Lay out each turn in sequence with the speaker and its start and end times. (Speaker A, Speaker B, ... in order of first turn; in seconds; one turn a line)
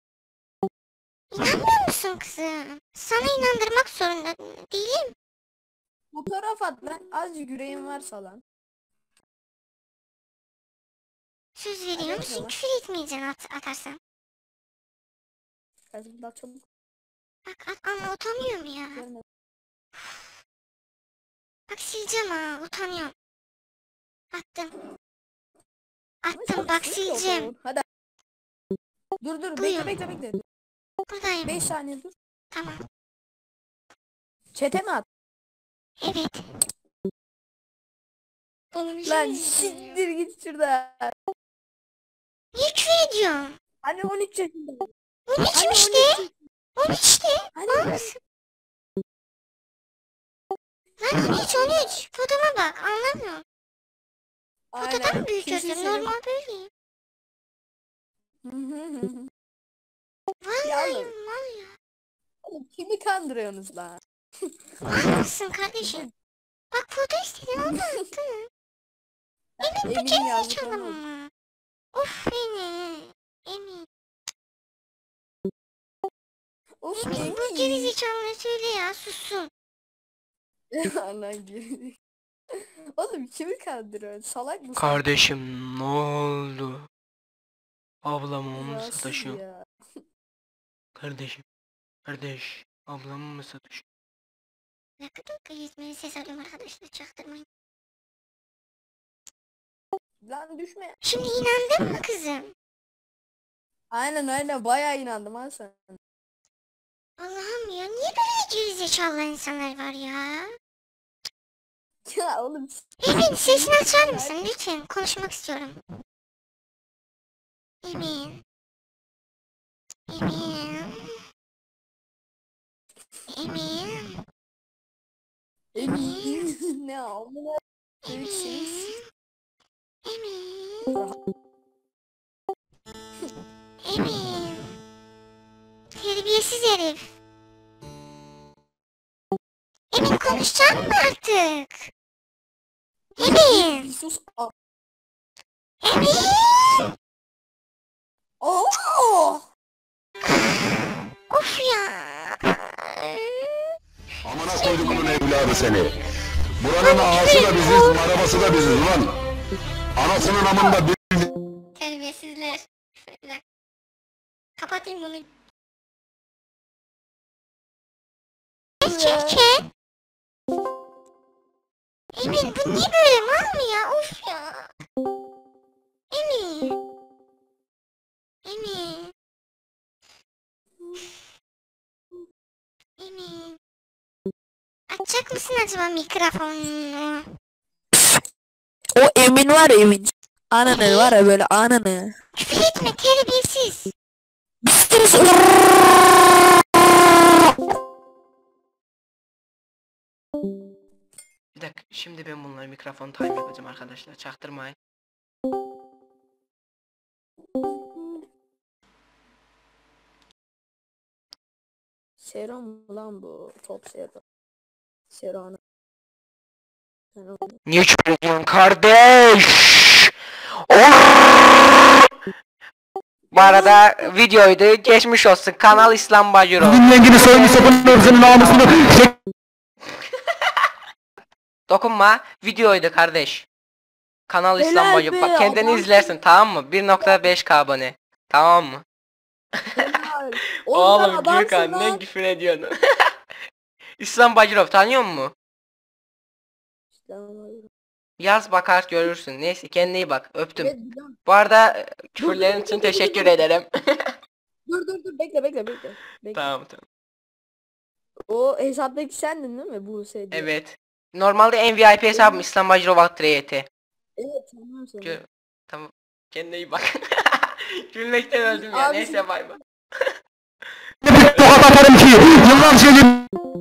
Speaker A: 1.3-5.1
Speaker B: 6.1-8.4
Speaker A: 11.6-14.0
Speaker B: 12.0-12.6
Speaker B: 15.9-16.6
Speaker A: 17.5-19.0
Speaker B: 18.9-19.2
Speaker A: 21.7-23.1
Speaker A: 24.3-24.7
Speaker A: 26.2-27.5
Speaker B: 26.3-27.8
Speaker B: 29.2-30.4
Speaker A: 29.6-29.9
Speaker A: 31.1-31.6
Speaker B: 31.4-32.1
Speaker A: 32.5-32.8
Speaker B: 34.5-35.1
Speaker A: 36.0-36.5
Speaker A: 38.7-40.0
Speaker B: 39.0-41.1
Speaker A: 42.5-43.6
Speaker B: 43.8-44.9
Speaker A: 45.3-48.2
Speaker B: 45.5-46.3
Speaker B: 47.5-48.1
Speaker A: 51.0-53.4
Speaker B: 51.2-52.0
Speaker B: 54.7-56.1
Speaker A: 54.8-56.7
Speaker B: 58.5-59.3
Speaker A: 60.4-61.8
Speaker B: 60.6-61.1
Speaker B: 62.5-64.5
Speaker A: 64.8-66.0
Speaker B: 65.8-66.1
Speaker A: 66.7-68.5
Speaker B: 67.7-68.0
Speaker B: 69.6-71.0
Speaker A: 69.6-71.3
Speaker A: 71.9-73.9
Speaker B: 76.8-78.0
Speaker A: 77.0-79.5
Speaker B: 80.7-82.0
Speaker B: 83.0-85.0
Speaker C: 84.8-86.9
Speaker C: 88.0-89.4
Speaker B: 88.5-89.7
Speaker C: 91.0-91.4
Speaker C: 92.1-93.8
Speaker A: 95.0-97.5
Speaker B: 100.2-101.0
Speaker A: 101.0-102.5
Speaker B: 103.9-106.0
Speaker A: 107.2-110.5
Speaker B: 112.1-114.4
Speaker A: 113.0-115.8
Speaker A: 117.8-118.4
Speaker A: 120.1-121.2
Speaker A: 123.3-124.2
Speaker B: 125.7-129.0
Speaker A: 125.8-126.4
Speaker A: 128.1-129.0
Speaker A: 130.1-130.9
Speaker B: 130.9-131.2
Speaker A: 133.8-134.7
Speaker A: 135.9-137.1
Speaker A: 139.9-141.9
Speaker B: 143.2-144.5
Speaker A: 143.2-143.9
Speaker A: 145.8-146.9
Speaker B: 148.4-149.4
Speaker A: 150.3-153.8
Speaker D: 154.3-155.9
Speaker A: 154.5-155.6
Speaker D: 156.6-159.1
Speaker A: 156.8-158.6
Speaker D: 160.0-161.3
Speaker A: 161.8-163.4
Speaker A: 164.6-165.3
Speaker A: 168.8-169.7
Speaker B: 168.8-169.5
Speaker A: 172.1-174.7
Speaker A: 176.1-176.7
Speaker A: 178.4-179.1
Speaker B: 180.8-181.1
Speaker A: 183.0-183.6
Speaker A: 184.9-187.3
Speaker B: 187.9-188.2
Speaker B: 189.0-192.1
Speaker A: 190.7-191.2
Speaker A: 192.4-193.9
Speaker B: 194.6-195.7
Speaker C: 201.6-204.8
Speaker B: 207.8-208.2
Speaker B: 212.2-214.2
Speaker B: 215.1-215.6
Speaker B: 217.2-217.6
Speaker C: 217.7-220.1
Speaker C: 220.7-221.9
Speaker B: 223.3-224.0
Speaker C: 223.3-229.1
Speaker D: 226.7-228.9
Speaker C: 231.7-233.5
Speaker C: 234.3-238.8
Speaker B: 234.6-236.2
Speaker B: 237.0-237.3
Speaker B: 239.8-242.0
Speaker C: 240.7-242.7
Speaker C: 244.0-245.3
Speaker B: 246.9-247.7
Speaker C: 248.2-250.7
Speaker B: 250.6-251.2
Speaker C: 251.3-253.7
Speaker B: 252.2-253.4
Speaker B: 254.7-256.5
Speaker C: 256.3-256.8
Speaker B: 258.3-260.5
Speaker C: 260.3-263.7
Speaker B: 262.1-262.4
Speaker B: 264.2-265.2
Speaker C: 265.0-270.1
Speaker B: 268.4-269.6
Speaker C: 271.1-273.1
Speaker D: 271.8-272.7